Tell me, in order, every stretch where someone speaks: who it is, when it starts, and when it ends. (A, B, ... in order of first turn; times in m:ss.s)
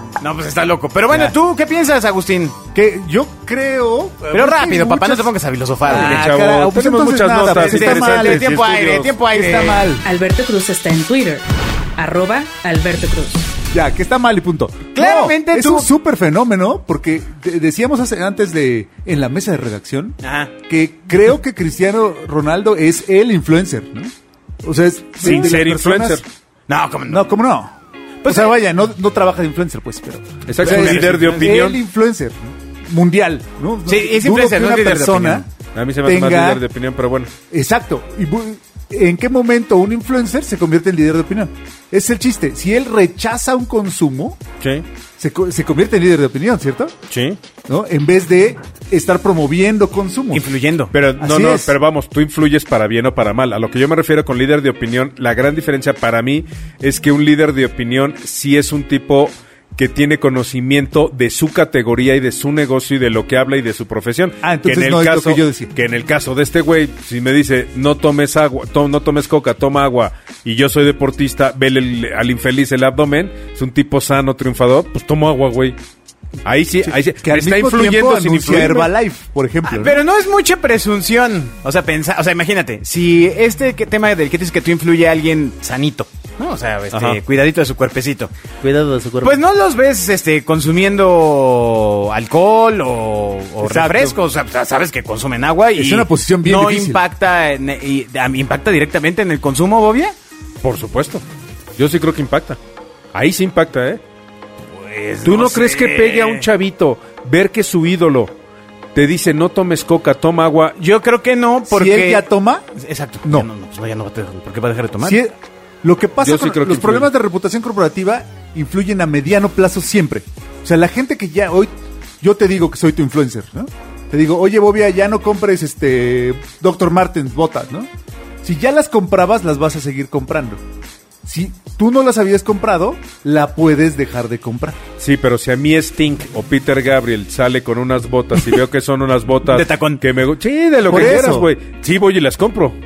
0:00.2-0:02.6 A
0:02.7-0:05.3 B
0:04.3-0:06.4 A
0:05.8-0:08.6 B
0:05.9-0:09.2 C
0:07.4-0:09.9 A
0:09.3-0:10.0 B
0:10.0-0:11.4 D
0:12.0-0:13.5 D
0:13.7-0:24.1 B
0:15.0-0:15.9 A
0:20.2-0:20.5 A
0:24.6-0:26.2 B
0:25.2-0:26.2 C
0:25.2-0:25.6 A
0:26.7-0:27.3 A
0:27.1-0:35.5 B
0:28.2-0:28.6 A
0:30.5-0:31.8 C
0:30.6-0:31.7 A
0:33.9-0:35.5 A
0:35.7-0:37.3 C
0:36.0-0:36.6 B
0:37.5-0:44.4 B
0:44.6-0:44.8 C
0:45.2-0:47.0 B
0:47.1-0:47.4 C
0:47.7-0:50.5 B
0:50.3-0:50.9 A
0:50.9-1:15.8 C
0:51.2-0:51.8 B
1:04.4-1:05.7 B
1:16.4-1:18.9 C
1:16.8-1:20.0 B
1:19.6-1:28.3 A
1:26.9-1:27.2 C
1:28.6-1:29.4 B
1:28.8-1:29.3 C
1:29.2-1:40.1 A
1:33.6-1:34.2 B
1:35.8-1:37.0 B
1:40.6-1:41.2 C
1:41.8-1:42.6 C
1:43.1-1:44.0 C
1:44.7-1:46.5 A
1:45.2-1:48.3 C
1:48.9-1:50.8 C
1:50.8-1:52.3 A
1:51.7-1:52.6 B
1:52.8-1:55.2 A
1:55.0-2:07.9 B
1:56.2-1:57.1 C
2:08.4-2:10.6 B
2:11.2-2:14.8 B
2:15.0-2:22.8 C
2:19.4-2:20.0 A
2:20.9-2:21.5 B